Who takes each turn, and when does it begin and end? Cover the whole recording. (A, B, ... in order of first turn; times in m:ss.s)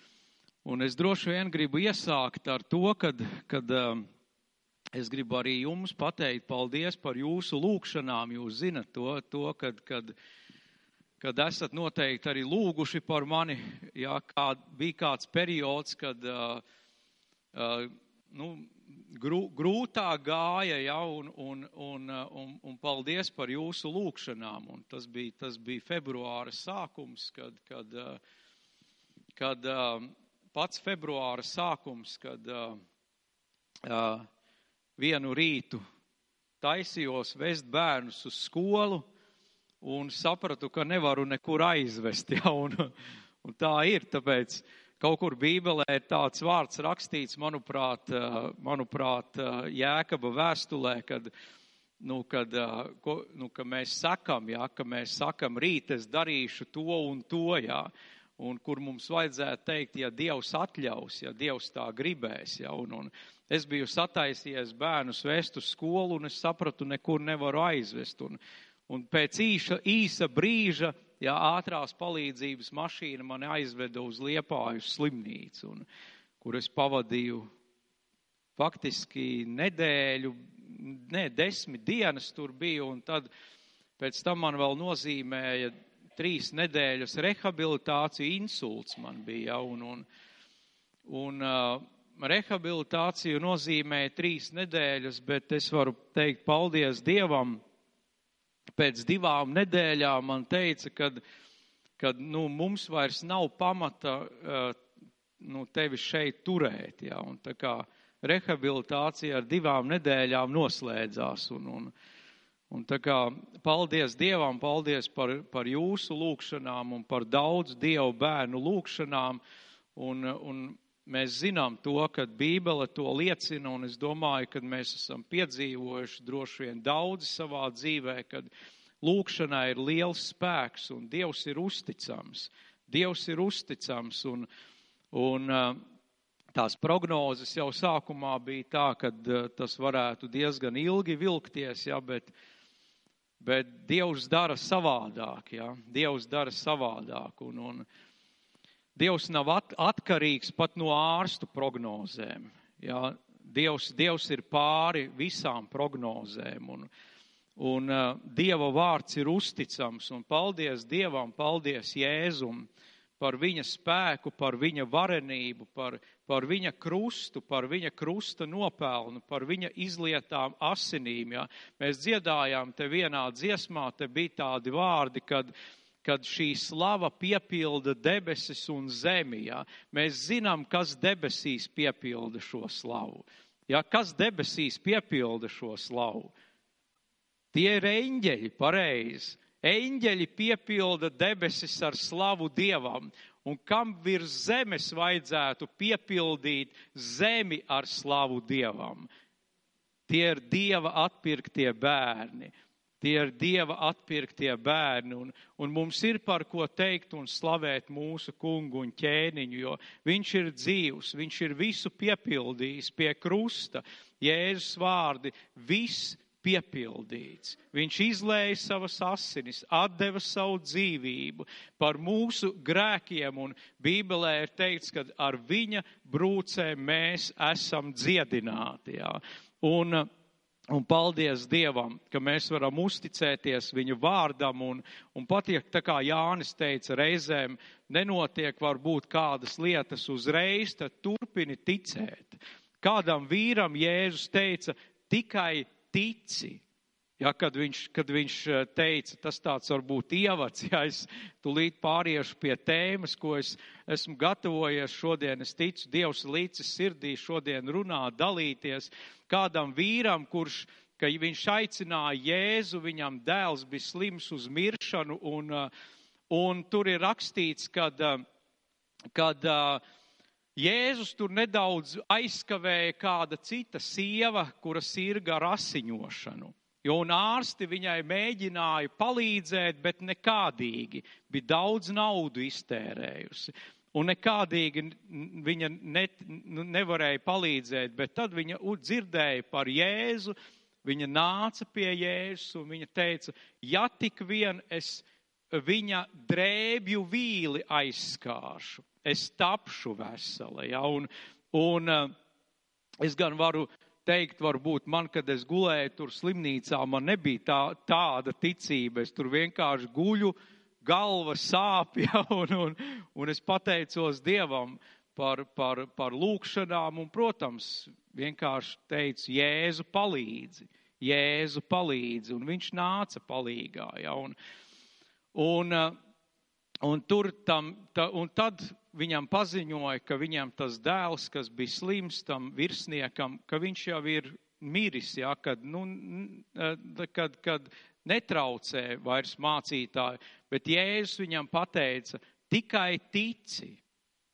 0:00.6-0:04.1 A
0:05.0-0:10.1 A
0:11.2-0:16.6 A
0:17.5-0:28.2 A
0:29.4-0:32.8 A
0:33.8-0:34.3 A
0:35.0-0:35.8 A
0:36.6-0:39.0 A
0:39.8-0:42.9 A
0:43.4-0:51.3 A
0:52.0-1:15.9 A
1:16.4-1:17.5 A
1:18.6-1:23.3 A
1:24.0-1:30.1 A
1:31.1-1:37.6 A
1:38.8-1:41.2 A
1:42.0-1:44.8 A
1:45.4-1:51.9 A
1:52.7-1:59.4 A
2:00.0-2:08.5 A
2:09.0-2:14.5 A
2:15.1-2:15.8 A
2:16.5-2:22.3 A
2:23.4-2:27.9 A
2:29.0-2:36.9 A
2:37.6-2:42.7 A
2:43.2-2:55.5 A
2:56.0-3:06.3 A
3:07.5-3:19.1 A
3:20.1-3:50.1 A
3:50.7-4:06.6 A
4:07.2-4:25.7 A
4:26.3-4:28.2 A
4:29.2-4:29.8 A
4:30.6-5:02.1 A
5:03.0-5:24.4 A
5:25.3-5:26.0 A
5:26.8-5:43.8 A